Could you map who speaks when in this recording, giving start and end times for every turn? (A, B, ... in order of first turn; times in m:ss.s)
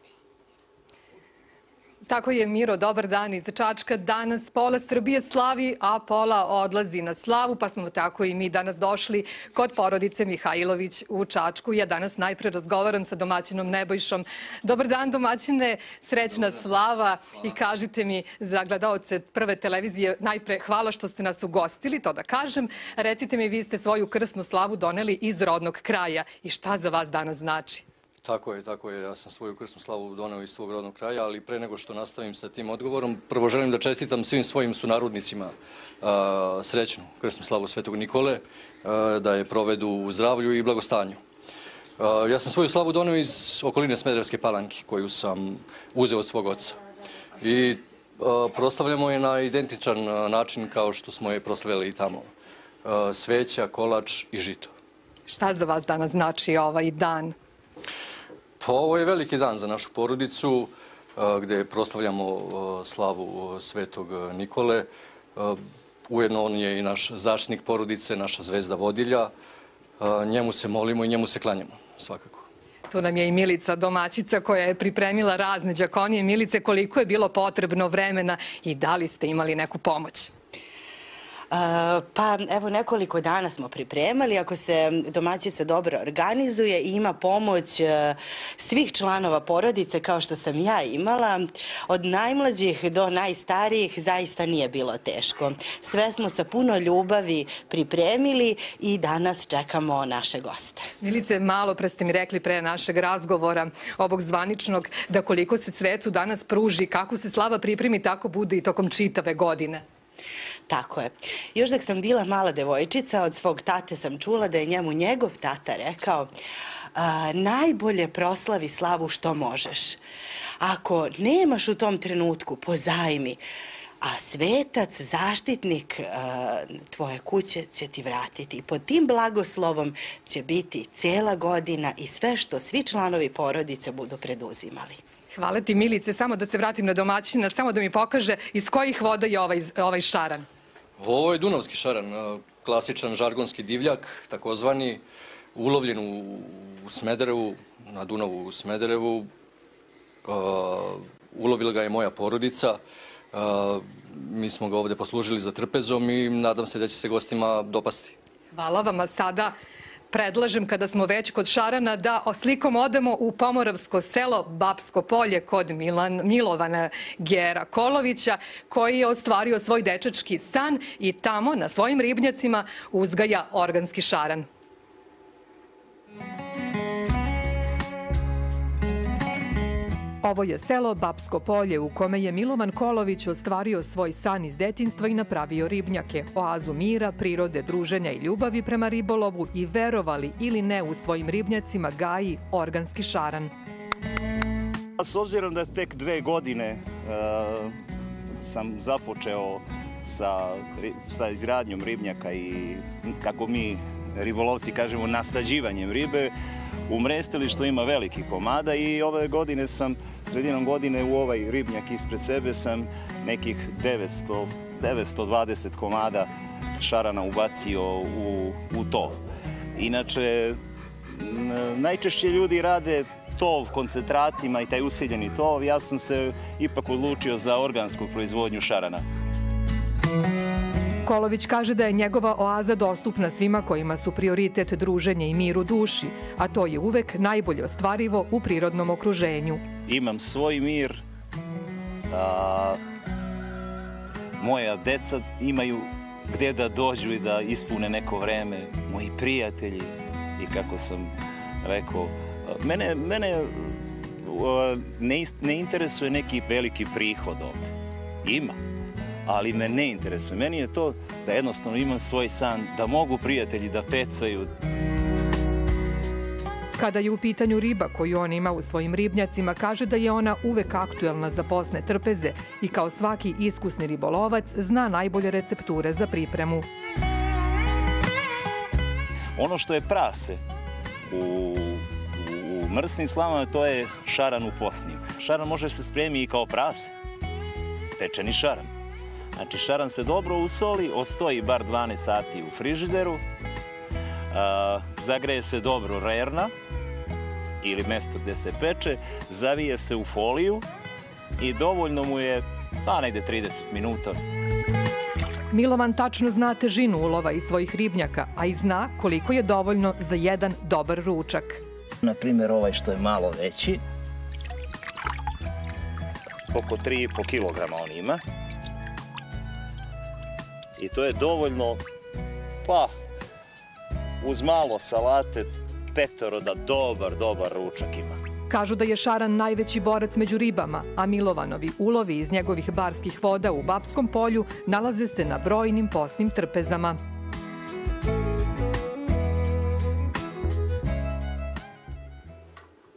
0:02.1-0:27.8 A
0:28.2-0:41.2 B
0:42.0-0:46.8 B
0:47.4-0:52.3 B
0:52.8-0:54.7 B
0:55.3-0:57.4 A
0:58.6-1:09.3 B
1:10.0-1:12.4 B
1:12.9-1:20.3 A
1:21.5-1:40.9 C
1:41.0-1:49.8 A
1:50.7-1:56.3 C
1:57.0-2:00.0 C
2:00.6-2:03.4 C
2:04.0-2:15.0 C
2:15.3-2:20.5 A
2:21.0-2:25.0 B
2:25.6-2:29.3 B
2:30.2-2:32.8 B
2:33.3-2:38.2 B
2:38.5-2:39.5 A
2:40.1-2:54.5 A
3:00.2-3:13.5 A
3:15.0-3:17.7 D
3:18.4-3:26.3 D
3:26.9-3:36.3 D
3:36.8-3:39.2 D
3:39.8-3:40.6 D
3:41.1-3:49.0 D
3:51.0-3:59.6 A
3:59.9-4:01.0 D
4:02.1-4:02.8 D
4:04.4-4:11.1 D
4:11.6-4:17.7 D
4:18.2-4:18.6 D
4:19.2-4:24.6 D
4:26.8-4:36.7 A
4:39.4-4:40.4 D
4:41.1-4:46.9 D
4:48.0-4:48.7 D
4:49.4-4:53.2 D
4:54.3-4:56.5 D
4:57.6-5:00.6 D
5:01.4-5:04.2 D
5:05.5-5:11.6 A
5:12.0-5:13.8 D
5:16.5-5:18.2 D
5:20.8-5:21.8 D
5:22.6-5:22.9 D
5:24.2-5:28.2 D
5:28.5-5:37.0 A